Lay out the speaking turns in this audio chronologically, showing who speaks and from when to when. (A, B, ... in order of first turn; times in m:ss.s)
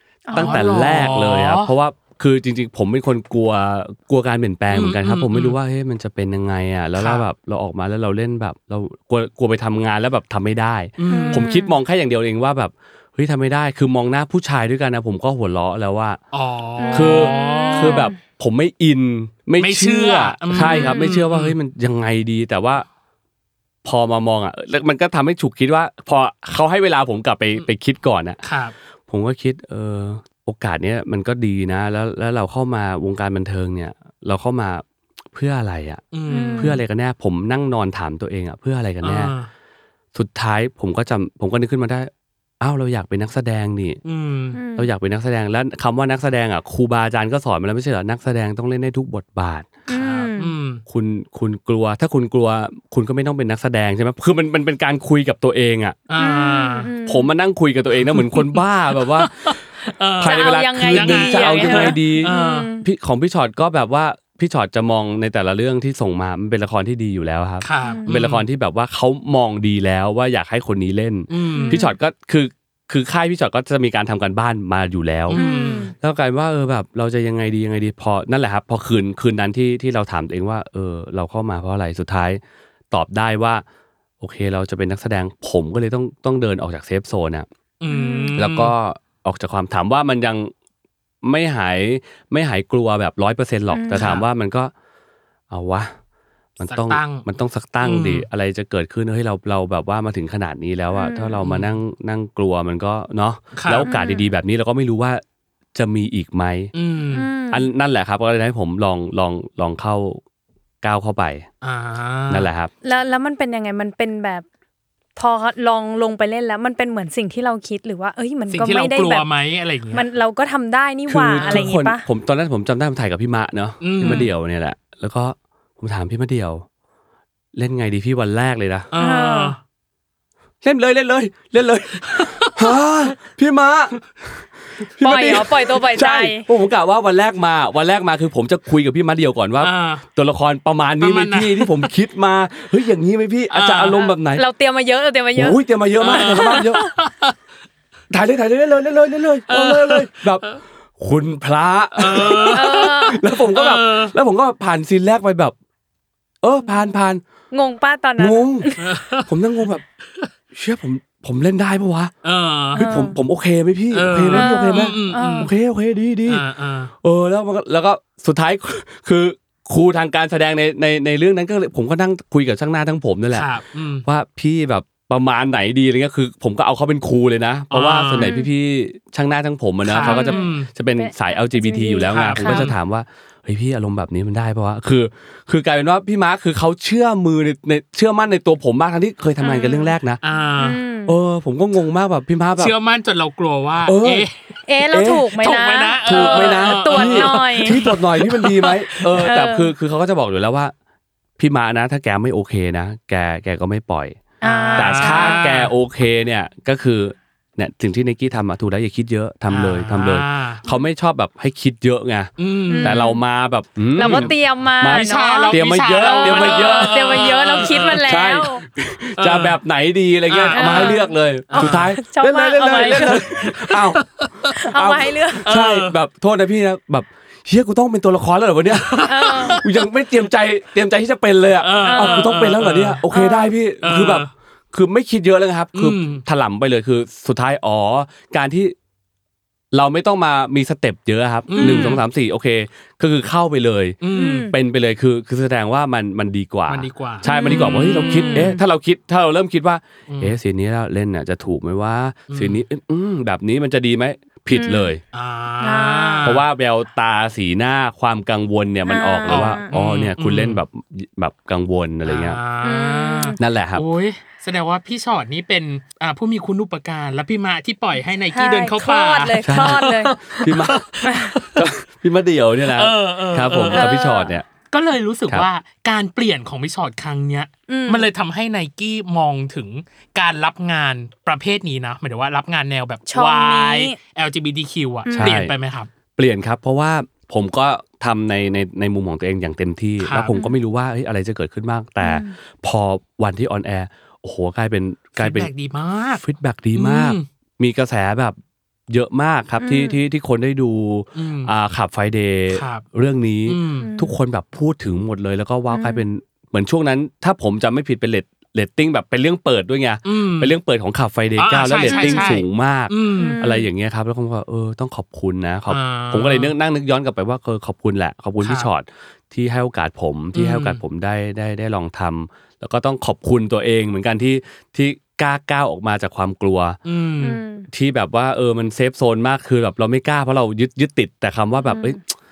0:00.3-0:00.8 A
0:00.3-0:01.7 B
0:00.3-0:16.2 C
0:04.7-0:05.6 B
0:07.0-0:07.2 B
0:11.0-0:11.5 B
0:11.1-0:11.7 A
0:16.3-0:18.1 B
0:16.8-0:18.2 A
0:16.9-0:22.9 C
0:19.6-0:21.6 B
0:20.6-0:21.0 A
0:23.8-0:28.4 C
0:28.4-0:28.8 B
0:29.1-0:36.0 C
0:36.1-0:36.8 B
0:36.3-0:36.8 A
0:36.6-0:39.3 C
0:39.0-0:39.5 B
0:40.1-0:42.1 C
0:42.6-0:44.0 C
0:44.0-0:44.6 B
0:44.5-0:44.9 A
0:44.8-0:49.7 C
0:49.9-0:50.5 A
0:49.9-0:50.8 B
0:50.9-0:56.0 C
0:56.1-0:56.9 B
0:56.2-0:57.3 A
0:57.1-0:59.6 C
0:58.0-1:02.7 B
1:00.2-1:15.4 C
1:00.2-1:02.9 A
1:07.6-1:08.5 B
1:07.8-1:08.1 A
1:11.3-1:11.8 B
1:11.6-1:11.9 A
1:15.3-1:15.9 B
1:15.3-1:15.9 A
1:16.0-1:23.6 C
1:24.2-1:27.5 C
1:27.8-1:28.7 B
1:27.9-1:28.3 A
1:28.4-1:30.5 C
1:31.2-1:34.7 C
1:33.7-1:34.0 A
1:33.9-1:34.2 B
1:35.5-1:35.9 C
1:36.6-1:45.2 C
1:36.7-1:37.3 B
1:37.8-1:38.3 B
1:41.0-1:41.4 A
1:41.4-1:41.8 B
1:43.6-1:43.9 B
1:43.8-1:44.3 A
1:45.8-1:46.7 C
1:46.7-1:47.3 B
1:47.1-1:47.7 A
1:47.5-1:50.2 C
1:50.8-1:51.5 C
1:51.6-1:52.5 B
1:52.3-1:52.7 C
1:52.8-1:54.5 A
1:55.2-1:59.3 A
1:58.5-2:00.0 B
1:59.9-2:02.0 A
2:01.1-2:06.7 C
2:01.4-2:01.7 B
2:03.8-2:04.3 B
2:07.6-2:08.9 C
2:08.9-2:09.6 B
2:09.0-2:09.6 A
2:10.6-2:14.0 C
2:12.1-2:12.8 B
2:15.0-2:24.4 C
2:15.0-2:16.5 A
2:19.6-2:20.0 B
2:21.0-2:21.9 B
2:23.5-2:24.0 B
2:23.9-2:26.9 A
2:25.4-2:26.8 C
2:26.0-2:27.3 B
2:28.1-2:30.4 C
2:29.5-2:30.6 B
2:31.0-2:35.6 C
2:32.0-2:34.1 B
2:32.5-2:33.2 A
2:36.4-2:37.2 C
2:37.5-2:38.8 A
2:38.2-2:39.8 C
2:38.8-2:39.3 B
2:40.5-2:42.1 C
2:42.2-2:42.9 B
2:42.8-2:43.2 A
2:42.8-2:46.4 C
2:43.9-2:45.5 B
2:44.3-2:45.5 A
2:46.3-2:46.9 B
2:47.0-2:53.5 C
2:53.3-2:54.0 B
2:54.0-3:10.2 C
2:57.7-2:58.4 B
2:58.2-2:58.5 A
2:59.9-3:00.7 B
3:00.0-3:02.7 A
3:02.1-3:02.8 B
3:09.4-3:09.9 A
3:10.2-3:10.8 B
3:10.6-3:11.2 A
3:11.1-3:12.7 C
3:12.6-3:14.4 B
3:13.8-3:14.3 C
3:14.7-3:17.8 A
3:14.8-3:15.4 C
3:15.4-3:19.3 B
3:16.1-3:20.7 C
3:19.2-3:19.7 A
3:21.4-3:24.2 C
3:24.4-3:25.5 A
3:24.4-3:25.7 B
3:24.8-3:44.0 C
3:29.5-3:30.6 B
3:32.4-3:33.0 B
3:32.7-3:33.2 A
3:33.9-3:38.6 A
3:34.0-3:34.3 B
3:34.9-3:38.1 B
3:39.2-3:39.6 B
3:40.3-3:41.9 B
3:40.5-3:43.7 A
3:43.7-3:44.5 B
3:44.5-3:45.5 A
3:44.7-3:58.8 C
3:45.5-3:46.0 B
3:48.7-3:49.9 B
3:49.0-3:49.6 A
3:51.6-3:53.0 B
3:51.8-3:52.3 A
3:53.1-3:53.5 A
3:53.8-3:54.3 B
3:55.7-3:56.2 B
3:59.7-4:04.0 C
4:01.5-4:02.0 B
4:01.6-4:02.0 A
4:04.0-4:04.5 B
4:04.1-4:04.6 A
4:04.5-4:15.0 C
4:06.7-4:08.5 B
4:07.2-4:08.6 A
4:10.1-4:10.4 B
4:12.3-4:12.6 B
4:14.5-4:14.9 A
4:15.1-4:16.4 B
4:15.6-4:16.3 A
4:16.2-4:22.4 C
4:18.9-4:19.7 A
4:19.3-4:20.6 B
4:22.0-4:31.7 B
4:22.6-4:23.4 A
4:23.4-4:23.8 C
4:28.3-4:30.2 A
4:29.4-4:30.8 C
4:31.0-4:31.3 A
4:31.5-4:34.5 C
4:32.7-4:45.9 B
4:33.7-4:34.4 A
4:37.7-4:38.1 A
4:43.1-4:44.0 A
4:45.1-4:45.4 A
4:45.2-4:45.5 C
4:46.2-4:55.5 C
4:50.0-4:50.3 B
4:50.3-4:50.6 A
4:52.0-4:52.4 A
4:55.2-4:56.2 B
4:56.2-4:58.4 C
4:56.7-4:57.3 B
4:58.9-5:26.8 C
4:59.6-5:00.0 A
5:01.2-5:01.5 B
5:02.5-5:02.9 B
5:03.5-5:03.9 B
5:03.8-5:04.1 A
5:05.7-5:06.0 A
5:10.0-5:10.6 B
5:11.4-5:13.6 B
5:11.9-5:12.4 A
5:13.2-5:13.6 A
5:15.7-5:16.5 B
5:18.4-5:18.7 B
5:20.3-5:20.8 B
5:26.8-5:27.4 B
5:27.2-5:27.7 A
5:27.7-5:32.0 C
5:31.6-5:32.0 A